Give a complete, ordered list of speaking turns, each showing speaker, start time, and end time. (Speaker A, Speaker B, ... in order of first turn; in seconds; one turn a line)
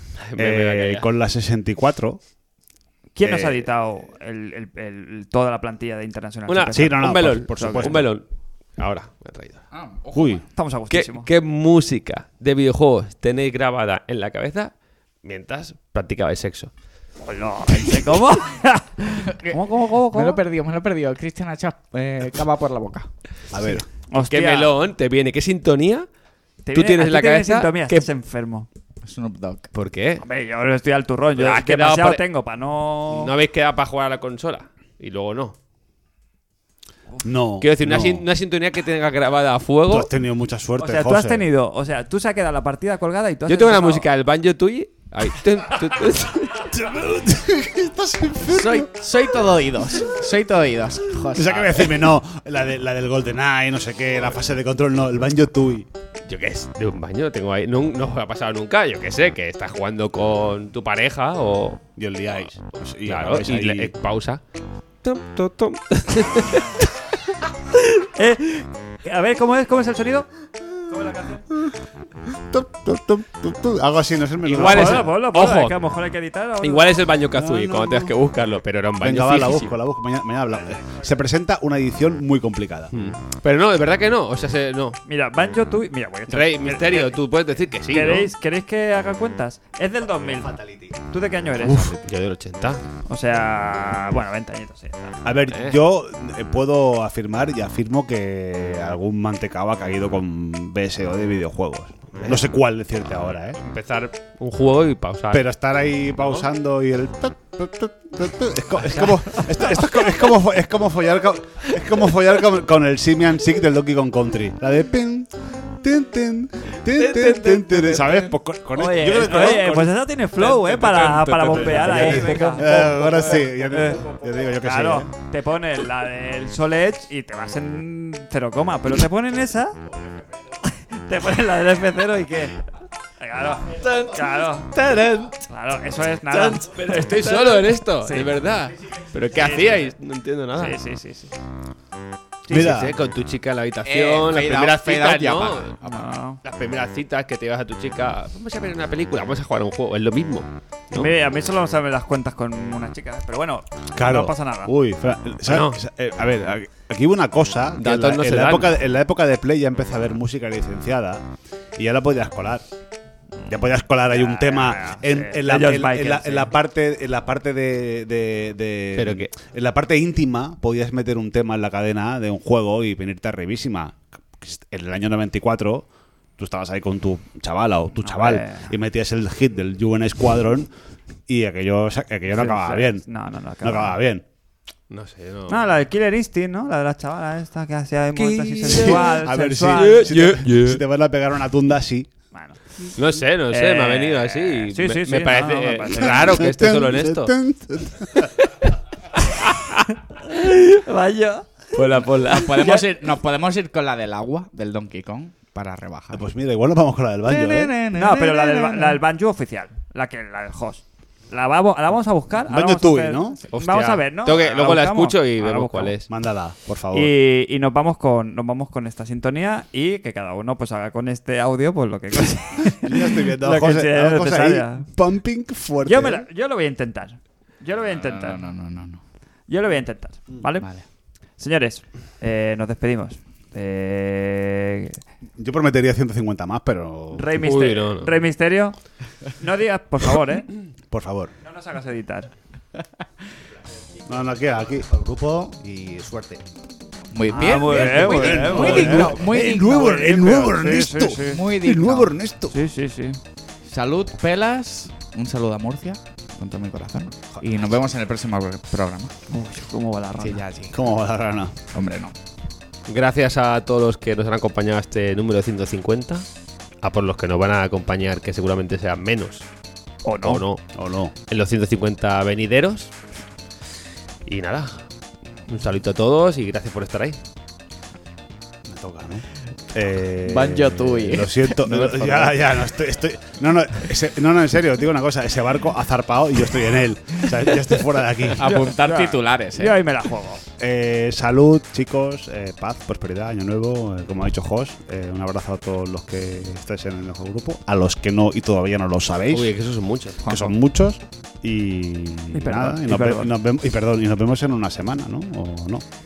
Speaker A: 0.3-1.1
Speaker B: 0.4-2.2
Speaker C: 3.1-8.0
Speaker B: 3.2-3.6
Speaker A: 6.5-8.2
Speaker B: 6.8-8.1
Speaker A: 8.8-9.7
Speaker D: 9.7-10.4
Speaker B: 10.1-10.4
Speaker C: 10.5-11.3
Speaker A: 10.9-14.7
Speaker A: 15.2-16.7
Speaker C: 17.2-20.4
Speaker D: 20.1-23.1
Speaker B: 23.5-23.9
Speaker C: 24.1-24.7
Speaker A: 24.3-26.1
Speaker C: 26.6-28.7
Speaker A: 26.7-28.1
Speaker D: 29.0-29.7
Speaker A: 29.7-30.2
Speaker C: 30.2-33.3
Speaker A: 31.4-32.2
Speaker A: 33.1-35.6
Speaker B: 37.2-38.3
Speaker A: 37.6-40.1
Speaker B: 39.9-41.5
Speaker C: 40.8-44.1
Speaker A: 43.5-46.8
Speaker B: 46.7-48.9
Speaker D: 48.4-52.1
Speaker B: 51.3-55.9
Speaker A: 56.3-61.9
Speaker B: 62.0-63.9
Speaker A: 63.0-64.4
Speaker A: 65.0-66.9
Speaker C: 68.2-70.3
Speaker C: 70.9-71.4
Speaker B: 71.5-75.1
Speaker A: 74.5-75.8
Speaker C: 74.6-76.9
Speaker A: 76.6-79.8
Speaker B: 77.3-78.1
Speaker B: 79.0-82.9
Speaker A: 82.9-85.0
Speaker C: 85.1-87.2
Speaker A: 86.3-88.3
Speaker C: 87.9-92.0
Speaker A: 91.6-92.8
Speaker C: 93.1-95.2
Speaker B: 95.2-103.6
Speaker A: 95.5-95.8
Speaker A: 102.1-102.4
Speaker A: 103.6-105.5
Speaker B: 105.3-120.0
Speaker A: 106.2-106.5
Speaker D: 117.0-118.3
Speaker C: 118.7-129.8
Speaker A: 120.4-122.6
Speaker B: 121.5-125.1
Speaker D: 122.3-123.2
Speaker C: 130.6-132.6
Speaker C: 133.2-134.7
Speaker D: 134.7-135.4
Speaker C: 135.5-138.3
Speaker A: 136.6-140.8
Speaker C: 139.3-139.9
Speaker C: 140.6-141.3
Speaker C: 142.5-142.8
Speaker B: 142.5-143.0
Speaker A: 142.5-145.7
Speaker D: 143.8-146.1
Speaker C: 145.8-146.4
Speaker A: 146.4-151.1
Speaker C: 150.9-154.7
Speaker B: 153.9-162.7
Speaker A: 155.5-155.8
Speaker A: 157.8-158.7
Speaker B: 163.5-175.9
Speaker C: 164.1-166.5
Speaker A: 169.0-169.3
Speaker B: 176.4-180.7
Speaker C: 178.0-178.7
Speaker B: 181.3-183.1
Speaker C: 182.3-184.0
Speaker B: 183.6-184.2
Speaker A: 184.9-185.7
Speaker C: 185.5-190.1
Speaker A: 188.2-190.8
Speaker B: 188.7-192.1
Speaker C: 192.3-192.9
Speaker A: 193.0-197.3
Speaker C: 193.5-196.3
Speaker B: 196.0-198.3
Speaker C: 200.1-202.8
Speaker D: 201.8-206.2
Speaker B: 206.1-207.7
Speaker D: 207.2-209.0
Speaker C: 207.9-215.9
Speaker B: 212.5-213.4
Speaker A: 213.5-216.1
Speaker B: 216.1-217.1
Speaker C: 216.9-224.9
Speaker B: 222.7-226.3
Speaker C: 225.8-228.5
Speaker D: 227.9-229.0
Speaker C: 229.5-230.7
Speaker D: 230.6-230.8
Speaker C: 231.4-235.0
Speaker B: 235.4-237.3
Speaker C: 237.1-238.8
Speaker A: 237.4-238.2
Speaker C: 239.3-240.5
Speaker B: 240.9-241.3
Speaker C: 241.4-242.3
Speaker B: 244.1-245.1
Speaker E: 244.1-246.4
Speaker D: 247.1-252.2
Speaker C: 247.3-251.5
Speaker B: 247.5-252.6
Speaker C: 252.5-253.2
Speaker D: 253.7-259.1
Speaker C: 259.3-260.4
Speaker D: 260.2-260.9
Speaker B: 260.7-261.6
Speaker D: 261.7-262.1
Speaker A: 262.9-266.3
Speaker A: 266.8-269.5
Speaker C: 270.0-270.4
Speaker A: 270.2-270.7
Speaker B: 270.7-271.1
Speaker A: 271.3-272.9
Speaker A: 274.2-274.8
Speaker A: 275.5-277.2
Speaker B: 278.7-288.5
Speaker D: 280.2-282.5
Speaker D: 288.4-289.8
Speaker C: 288.4-290.4
Speaker B: 290.6-299.5
Speaker A: 299.3-300.2
Speaker D: 300.2-300.5
Speaker B: 300.3-305.8
Speaker C: 302.3-303.3